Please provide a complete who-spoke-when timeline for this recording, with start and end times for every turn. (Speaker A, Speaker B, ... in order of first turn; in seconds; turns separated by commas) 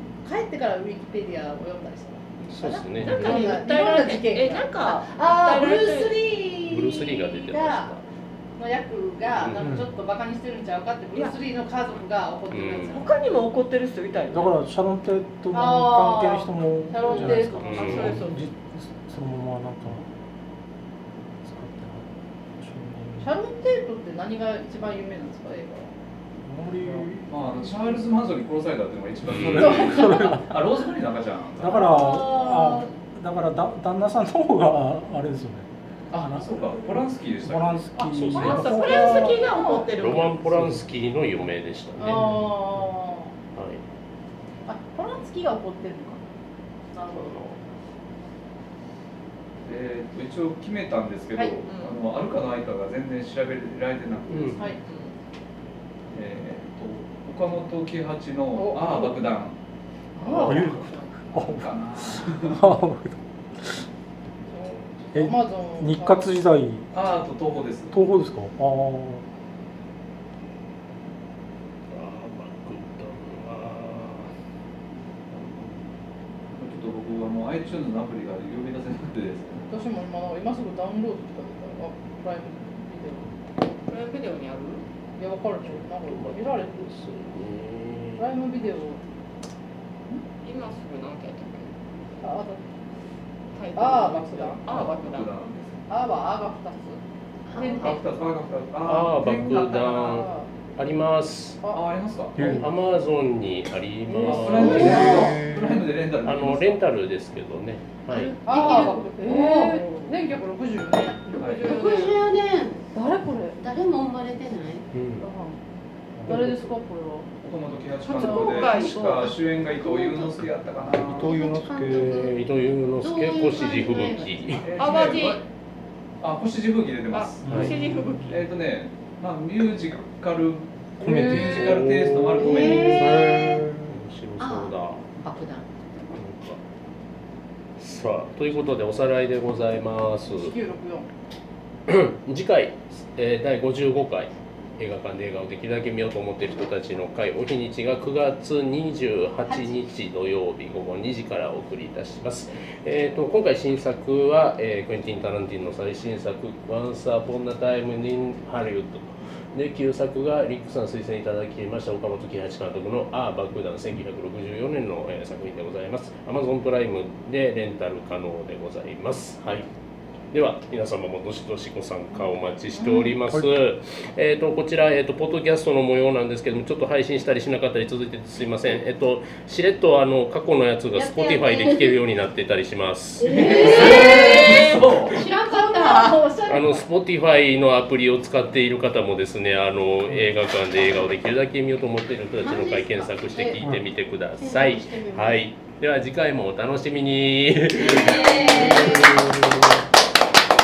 Speaker A: 0.2-7.9, Speaker B: 2.4-3.6, Speaker C: 3.0-6.2, Speaker B: 6.7-8.0, Speaker A: 8.6-13.1, Speaker B: 9.3-9.7, Speaker D: 9.6-9.9, Speaker B: 12.5-13.1, Speaker C: 12.9-14.6, Speaker D: 14.3-20.0, Speaker A: 15.5-18.2, Speaker C: 17.0-18.5, Speaker B: 17.6-18.4, Speaker D: 21.4-22.1, Speaker D: 22.6-23.3, Speaker A: 23.2-25.9, Speaker D: 26.4-27.3, Speaker E: 27.3-32.2, Speaker B: 29.3-30.0, Speaker A: 29.6-30.3, Speaker D: 29.8-30.5, Speaker D: 31.6-36.9, Speaker C: 31.9-32.9, Speaker E: 36.1-37.9, Speaker D: 37.4-39.3, Speaker C: 38.0-40.6, Speaker B: 38.1-38.9, Speaker A: 38.6-39.9, Speaker B: 39.8-42.5, Speaker D: 40.5-40.8, Speaker A: 42.0-43.3, Speaker B: 43.5-43.8, Speaker A: 44.6-46.2, Speaker A: 46.9-47.4, Speaker B: 47.1-47.6, Speaker E: 49.6-54.7, Speaker C: 51.6-52.0, Speaker B: 54.3-54.6, Speaker A: 54.5-54.8, Speaker C: 54.8-55.1, Speaker E: 56.1-59.6, Speaker A: 58.5-59.2, Speaker A: 60.2-60.5, Speaker C: 60.2-61.1, Speaker E: 60.2-62.7, Speaker D: 60.4-61.7, Speaker D: 62.3-63.2, Speaker A: 64.5-66.3, Speaker D: 65.1-66.9, Speaker E: 66.9-68.0, Speaker D: 67.9-69.2, Speaker B: 71.9-74.3, Speaker E: 75.3-75.9, Speaker E: 76.5-79.7, Speaker A: 79.7-83.3, Speaker C: 83.9-84.8, Speaker A: 85.2-86.8, Speaker B: 85.6-88.2, Speaker A: 88.2-89.0, Speaker C: 90.4-91.7, Speaker A: 92.2-92.6, Speaker C: 93.5-95.6, Speaker A: 93.7-94.6, Speaker E: 94.6-95.6, Speaker A: 95.9-97.0, Speaker F: 97.5-97.9, Speaker A: 97.5-98.0, Speaker E: 97.7-99.7, Speaker B: 98.8-101.6, Speaker A: 99.5-100.5, Speaker E: 101.7-102.6, Speaker D: 102.3-102.7, Speaker B: 102.5-105.3, Speaker E: 104.1-106.9, Speaker A: 104.2-105.3, Speaker F: 104.6-105.0, Speaker D: 105.0-105.8, Speaker B: 106.2-108.4, Speaker F: 108.1-109.7, Speaker A: 108.4-111.4, Speaker C: 108.5-110.1, Speaker C: 111.3-112.2, Speaker E: 111.4-111.7, Speaker F: 111.6-112.8, Speaker A: 112.9-113.6, Speaker F: 113.5-114.8, Speaker B: 114.9-115.2, Speaker A: 115.2-115.6, Speaker B: 116.2-116.4, Speaker A: 116.2-117.3, Speaker E: 117.4-121.4, Speaker A: 118.0-119.0, Speaker C: 118.2-120.2, Speaker D: 120.9-122.3, Speaker F: 121.2-122.3, Speaker B: 122.1-124.7, Speaker F: 123.0-124.7, Speaker E: 124.6-125.4, Speaker C: 124.8-125.4, Speaker E: 126.2-133.3, Speaker C: 127.1-128.4, Speaker D: 127.4-128.2, Speaker B: 127.5-127.7, Speaker A: 131.0-131.4, Speaker D: 131.0-131.9, Speaker B: 131.4-135.1, Speaker F: 132.3-133.7, Speaker D: 132.9-133.9, Speaker F: 134.4-135.7, Speaker B: 136.1-136.6, Speaker B: 137.8-140.5, Speaker A: 140.3-141.1, Speaker B: 141.9-169.7, Speaker A: 149.4-149.8, Speaker B: 170.3-183.3, Speaker A: 172.7-173.1, Speaker A: 180.9-182.0, Speaker A: 183.2-184.6, Speaker E: 183.3-185.2, Speaker F: 183.4-186.2, Speaker A: 185.4-186.8, Speaker B: 186.5-199.3, Speaker F: 192.4-193.5, Speaker A: 193.3-193.6, Speaker F: 194.3-195.5, Speaker A: 197.8-199.1, Speaker F: 198.0-199.1